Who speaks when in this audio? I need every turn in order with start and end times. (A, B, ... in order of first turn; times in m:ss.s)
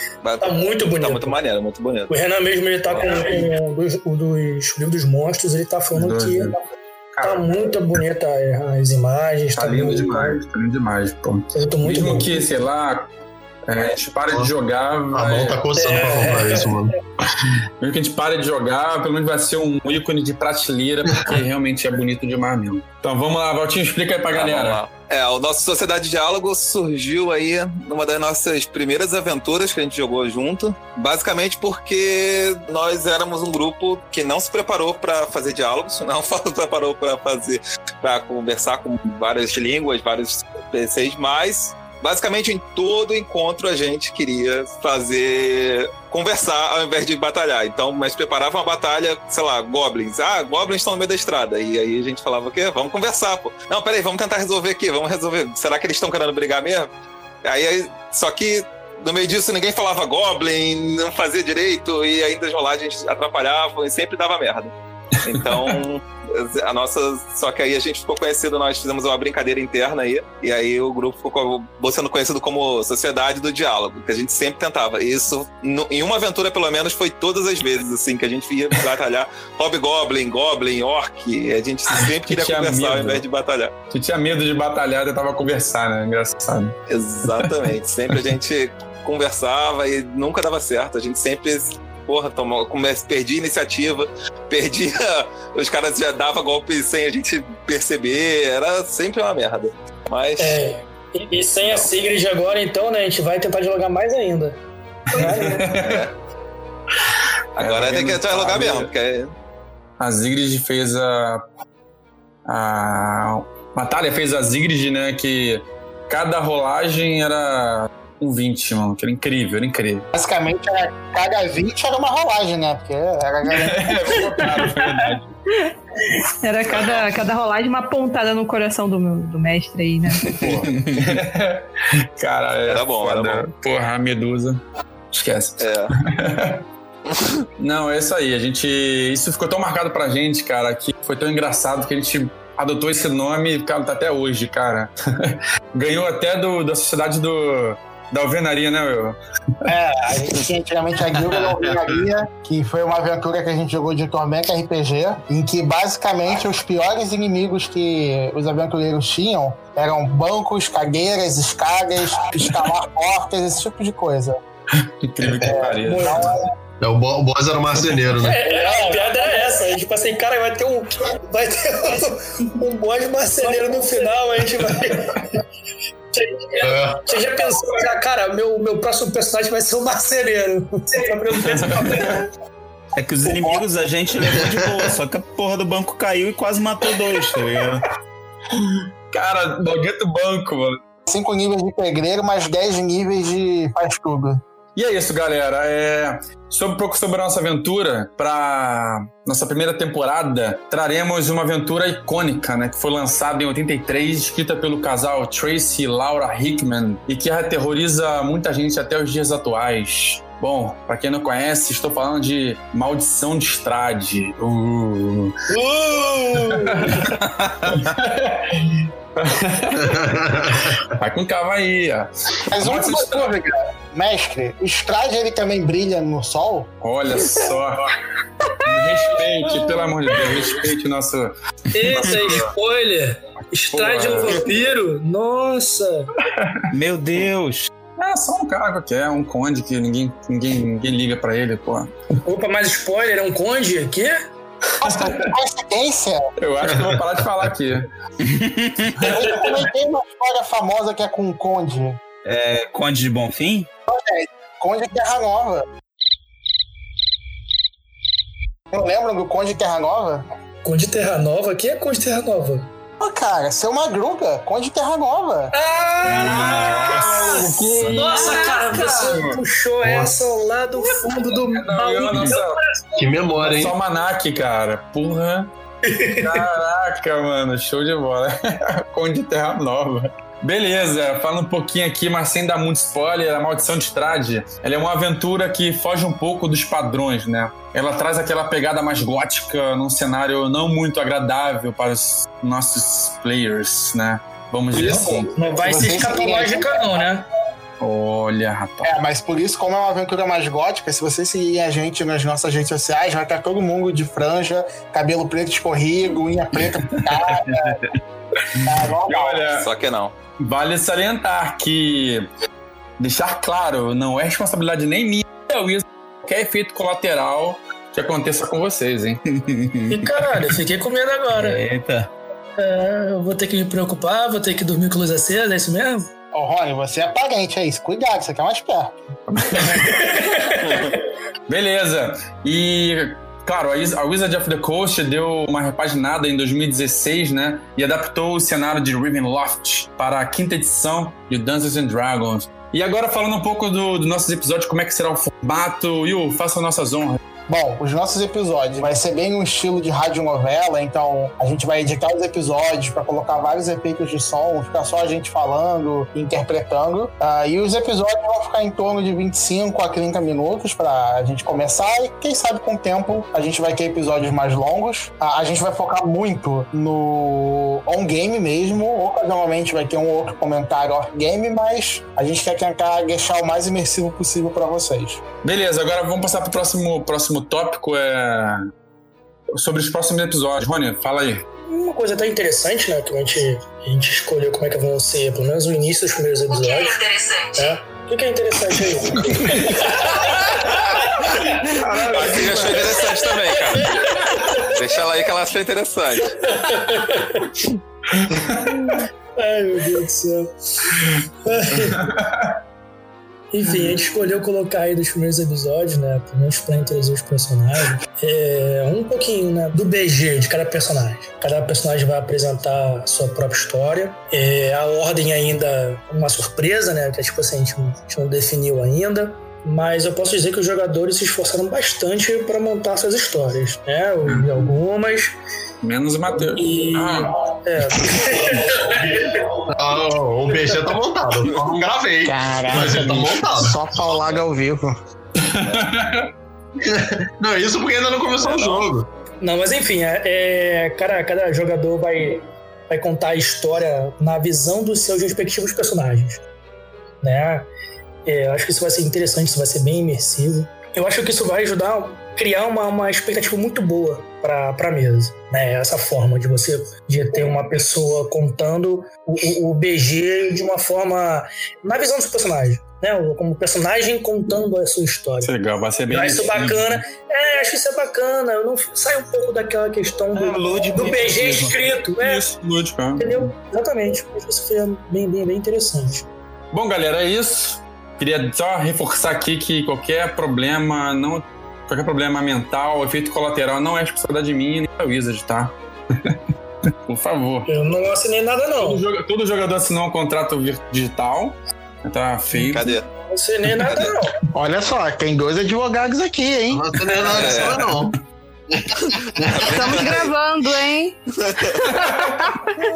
0:00.2-0:02.2 A
0:00.4-0:01.4 B
0:02.1-0:06.6 B
0:02.9-0:03.4 A
0:05.9-0:06.5 C
0:07.1-0:07.5 C
0:07.2-0:10.4 B
0:09.5-0:13.1 C
0:11.5-0:12.5 B
0:13.7-0:15.6 C
0:15.1-0:16.9 D
0:15.7-0:16.9 B
0:17.2-0:24.8 C
0:24.3-0:56.9 A
0:57.4-1:23.7 A
1:05.3-1:05.8 C
1:21.9-1:23.2 C
1:23.9-1:26.8 C
1:26.9-1:40.6 A
1:27.3-1:27.7 C
1:40.4-1:44.6 B
1:41.6-1:41.9 A
1:45.1-1:45.7 B
1:45.1-1:46.0 C
1:45.8-1:46.1 A
1:47.6-1:49.3 A
1:47.6-1:48.9 C
1:50.0-1:51.4 C
1:52.5-2:00.1 C
2:00.1-2:04.3 E
2:03.5-2:05.4 C
2:05.6-2:10.4 F
2:06.7-2:07.0 A
2:10.3-2:16.6 C
2:10.5-2:11.1 G
2:12.7-2:13.4 A
2:15.6-2:15.9 A
2:17.6-2:29.2 C
2:29.6-2:44.4 E
2:44.8-2:46.4 C
2:45.5-2:46.5 B
2:46.0-2:46.4 E
2:46.8-2:48.4 D
2:48.1-2:55.2 B
2:48.5-2:49.2 E
2:56.1-3:02.3 B
2:56.6-2:57.0 D
3:01.5-3:01.9 C
3:03.0-3:07.8 G
3:03.3-3:03.6 E
3:08.5-3:10.8 C
3:11.1-3:14.4 E
3:14.8-3:35.4 C
3:35.5-3:37.1 B
3:36.5-3:37.1 C
3:37.5-3:37.8 G
3:37.6-3:43.3 C
3:39.9-3:40.8 D
3:42.5-3:46.7 E
3:46.8-3:47.9 C
3:48.6-3:51.3 C
3:51.7-3:56.1 B
3:51.9-3:52.5 C
3:53.7-3:54.5 C
3:56.2-3:56.6 C
3:56.7-3:57.7 G
3:58.0-4:01.9 C
4:02.2-4:04.2 B
4:04.7-4:05.3 C
4:04.8-4:06.3 E
4:06.4-4:07.9 C
4:08.2-4:09.0 G
4:09.0-4:12.0 E
4:09.1-4:09.6 B
4:12.2-4:13.7 G
4:13.9-4:15.6 E
4:18.7-4:20.2 E
4:20.6-4:22.7 B
4:23.0-4:25.5 E
4:25.5-4:33.2 B
4:26.0-4:29.4 C
4:26.3-4:27.2 G
4:28.3-4:29.1 F
4:29.8-4:30.2 D
4:30.9-4:32.6 C
4:33.0-4:33.8 D
4:33.4-4:35.5 C
4:35.9-4:36.5 B
4:36.2-4:55.3 C
4:54.7-4:57.3 B
4:54.8-4:57.0 E
4:57.8-4:58.9 C
4:58.8-5:07.9 E
5:08.5-5:09.7 C
5:08.6-5:09.6 E
5:09.6-5:10.1 A
5:10.4-5:12.3 C
5:13.0-5:19.2 C
5:19.3-5:20.2 G
5:19.9-5:21.6 B
5:21.3-5:22.1 G
5:22.6-5:26.1 B
5:26.3-5:29.0 E
5:29.3-5:30.2 C
5:29.7-5:31.0 B
5:30.6-5:31.0 A
5:31.5-5:47.2 C
5:47.5-6:15.2 E
6:15.4-6:18.7 C
6:19.5-6:21.4 C
6:21.7-6:34.8 B
6:29.2-6:29.6 C
6:31.6-6:33.1 C
6:32.1-6:34.0 A
6:34.6-6:36.4 A
6:36.4-6:37.5 B
6:38.1-6:39.0 C
6:38.9-6:42.1 B
6:41.9-6:42.5 C
6:43.5-7:05.4 B
7:05.8-7:07.3 C
7:06.4-7:09.4 B
7:09.2-7:13.8 D
7:10.5-7:11.0 B
7:12.2-7:14.9 E
7:15.4-7:16.3 C
7:16.8-7:19.1 D
7:18.4-7:18.9 A
7:19.4-7:26.4 B
7:27.2-7:27.7 B
7:28.3-7:45.5 B
7:45.4-7:46.8 C
7:46.1-7:52.4 B
7:46.5-7:46.9 G
7:50.3-7:51.8 G
7:52.2-7:53.5 C
7:53.2-7:56.3 B
7:56.7-8:06.4 C
8:07.1-8:07.7 C
8:07.7-8:09.0 B
8:08.8-8:13.0 C
8:12.6-8:13.1 A
8:13.2-8:14.3 B
8:14.5-8:16.8 E
8:16.7-8:18.2 D
8:17.2-8:17.9 A
8:18.7-8:19.8 D
8:19.4-8:20.3 A
8:19.7-8:21.2 F
8:21.4-8:21.9 A
8:21.8-8:22.6 C
8:22.2-8:22.6 F